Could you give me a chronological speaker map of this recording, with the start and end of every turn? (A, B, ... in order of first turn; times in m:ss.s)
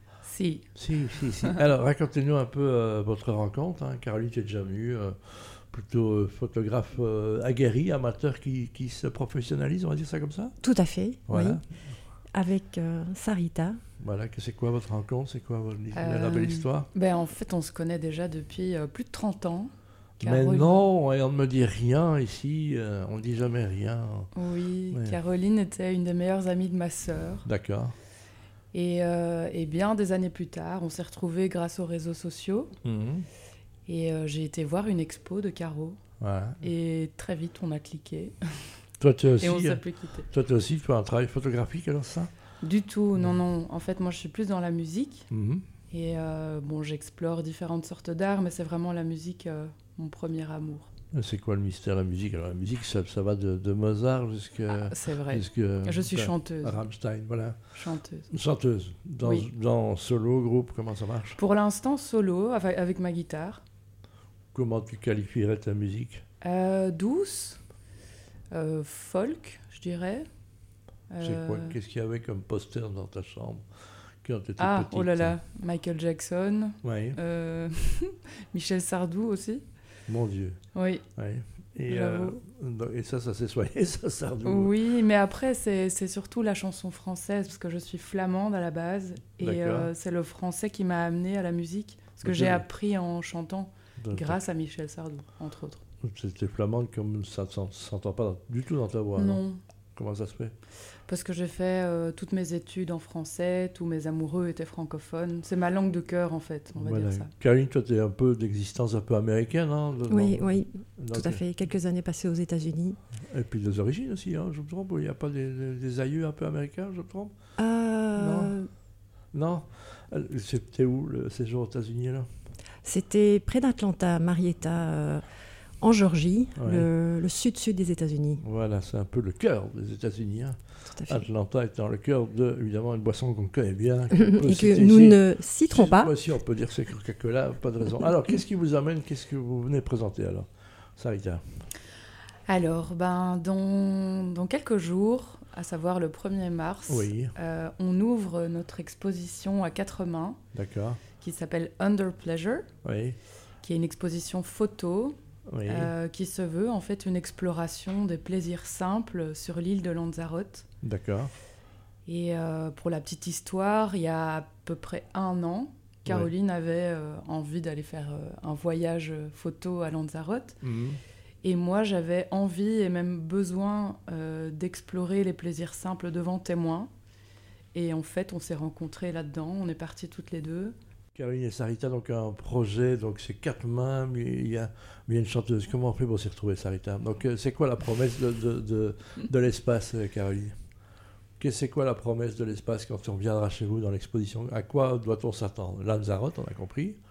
0:00.2-0:00.7 A
0:00.8-0:10.6 B
0:10.6-0:11.6 C
0:11.3-0:11.6 B
0:12.3-0:13.8 C
0:14.0-0:16.9 B
0:15.9-0:20.8 A
0:20.2-0:24.3 B
0:24.3-0:27.4 A
0:24.9-0:25.2 B
0:27.4-0:27.9 B
0:28.7-0:32.7 A
0:32.8-0:33.2 B
0:33.9-0:36.0 A
0:36.2-0:36.6 B
0:36.6-0:38.7 A
0:39.0-0:42.3 B
0:39.4-0:40.3 A
0:42.6-0:45.3 A
0:45.3-0:45.6 B
0:45.9-0:50.9 A
0:51.1-0:57.6 B
0:54.7-0:56.8 A
0:57.7-0:58.3 A
0:58.3-1:01.4 B
1:01.4-1:03.6 A
1:04.5-1:06.2 B
1:06.4-1:07.6 A
1:08.5-1:10.2 A
1:11.1-1:11.8 A
1:11.2-1:13.6 B
1:14.2-1:15.4 B
1:14.6-1:19.6 A
1:16.8-1:17.2 B
1:20.1-1:20.6 B
1:20.7-1:21.0 A
1:21.2-1:24.7 B
1:21.9-1:22.4 A
1:24.4-1:35.8 A
1:29.4-1:29.9 B
1:32.2-1:32.6 B
1:34.0-1:34.4 B
1:36.0-1:39.4 B
1:39.2-1:39.6 A
1:40.0-1:40.5 B
1:41.1-1:47.3 A
1:46.8-1:51.4 B
1:50.1-1:53.0 C
1:53.3-1:57.3 B
1:57.6-1:58.7 C
1:58.2-1:58.5 B
1:59.3-2:02.2 B
2:02.8-2:05.2 C
2:05.8-2:08.4 C
2:06.6-2:06.9 B
2:08.4-2:21.4 B
2:10.9-2:11.3 C
2:14.1-2:16.1 C
2:22.5-2:30.4 A
2:26.9-2:27.3 B
2:30.5-2:31.0 B
2:31.2-2:32.7 A
2:32.8-2:33.2 B
2:33.6-2:40.7 A
2:35.5-2:35.9 B
2:40.8-2:41.3 B
2:42.1-2:50.6 A
2:46.1-2:46.3 B
2:50.6-2:51.0 B
2:51.4-2:56.9 A
2:57.8-3:00.8 A
3:01.2-3:10.5 B
3:11.4-3:17.0 B